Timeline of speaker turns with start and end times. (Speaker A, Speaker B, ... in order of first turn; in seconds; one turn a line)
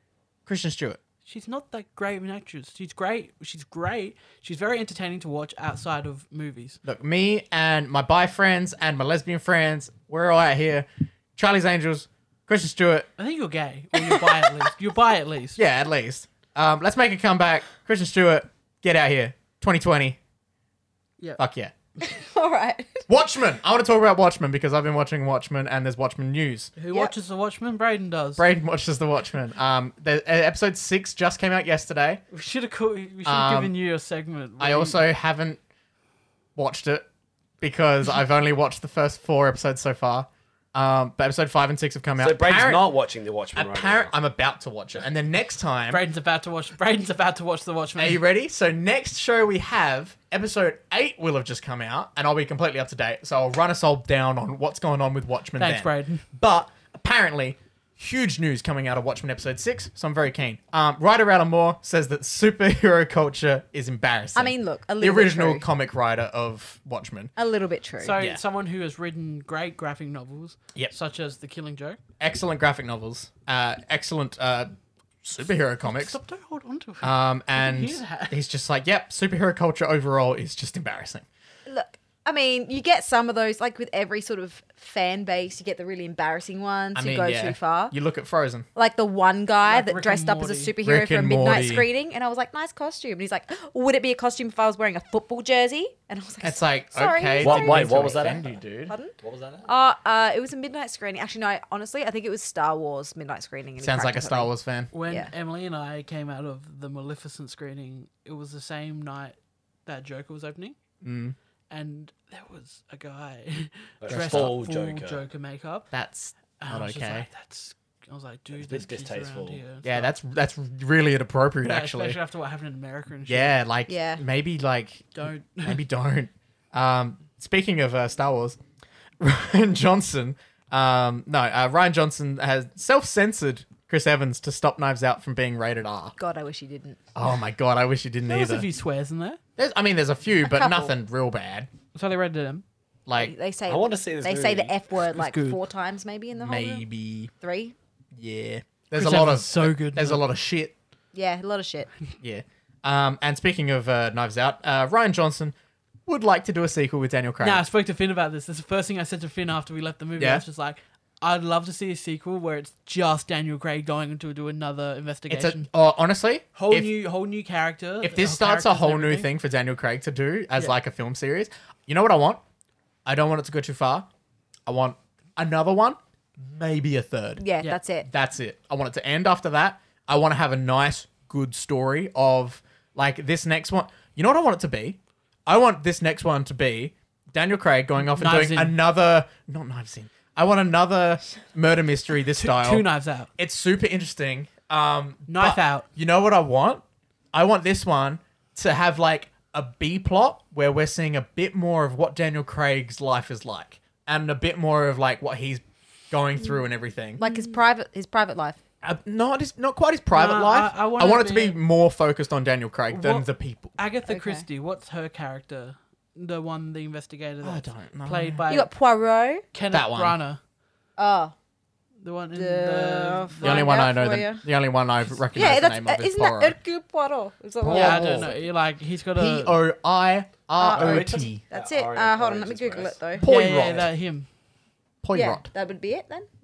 Speaker A: 0.5-1.0
Speaker B: 1.2-6.8
Speaker A: 6.8-13.1
Speaker B: 13.2-15.6
Speaker A: 15.6-20.2
Speaker A: 21.4-21.7
Speaker C: 22.0-23.1
Speaker A: 23.1-26.7
Speaker B: 26.8-28.4
Speaker A: 28.4-32.2
Speaker B: 32.3-35.0
Speaker A: 33.2-33.7
Speaker A: 34.6-35.6
Speaker A: 36.5-37.0
Speaker A: 37.6-42.9
Speaker D: 42.2-44.1
Speaker A: 43.5-46.0
Speaker B: 45.9-48.2
Speaker A: 48.0-67.3
Speaker B: 55.6-56.2
Speaker C: 64.3-65.6
Speaker C: 67.4-68.2
Speaker B: 68.0-72.0
Speaker A: 72.2-76.2
Speaker B: 75.8-78.4
Speaker A: 77.0-81.2
Speaker C: 81.7-87.9
Speaker A: 86.9-88.7
Speaker C: 88.8-104.5
Speaker B: 89.6-90.7
Speaker A: 90.8-91.9
Speaker A: 96.4-98.9
Speaker D: 97.4-98.6
Speaker D: 99.2-99.7
Speaker A: 103.8-104.9
Speaker B: 104.9-110.8
Speaker A: 111.0-111.3
Speaker B: 111.7-115.9
Speaker D: 114.0-115.2
Speaker A: 114.1-114.6
Speaker A: 115.9-117.3
Speaker B: 116.6-120.1
Speaker D: 118.5-119.6
Speaker A: 119.8-122.2
Speaker B: 121.6-123.6
Speaker A: 123.3-128.6
Speaker C: 123.9-124.2
Speaker B: 125.1-125.8
Speaker A: 129.2-136.2
Speaker C: 136.2-137.0
Speaker A: 137.1-138.7
Speaker B: 138.3-139.4
Speaker A: 139.6-141.7
Speaker C: 140.5-140.9
Speaker B: 141.9-142.6
Speaker A: 143.1-143.3
Speaker C: 143.2-146.8
Speaker D: 143.7-144.7
Speaker B: 145.1-145.6
Speaker A: 146.4-147.3
Speaker C: 147.4-147.7
Speaker A: 148.1-150.7
Speaker B: 148.9-150.2
Speaker C: 151.1-151.9
Speaker A: 152.2-155.5
Speaker A: 156.1-157.6
Speaker B: 157.4-165.7
Speaker A: 165.3-166.9
Speaker B: 166.5-169.3
Speaker A: 168.0-172.4
Speaker A: 173.1-174.1
Speaker A: 174.7-177.4
Speaker C: 177.4-178.1
Speaker A: 178.0-192.8
Speaker B: 188.1-188.8
Speaker B: 192.3-193.3
Speaker A: 193.4-207.2
Speaker B: 195.3-195.8
Speaker C: 207.2-208.6
Speaker A: 208.8-213.8
Speaker B: 210.1-211.6
Speaker B: 212.9-218.7
Speaker C: 214.1-214.4
Speaker A: 217.4-218.4
Speaker C: 218.5-219.4
Speaker B: 219.5-220.4
Speaker A: 219.7-220.2
Speaker C: 221.0-221.3
Speaker B: 222.0-223.7
Speaker C: 222.3-224.4
Speaker A: 223.4-226.6
Speaker C: 225.3-228.3
Speaker A: 227.6-228.3
Speaker B: 227.7-229.6
Speaker A: 229.2-231.4
Speaker C: 230.6-233.2
Speaker D: 230.7-233.0
Speaker A: 233.2-233.9
Speaker B: 233.2-234.3
Speaker A: 235.0-235.5
Speaker C: 235.1-236.3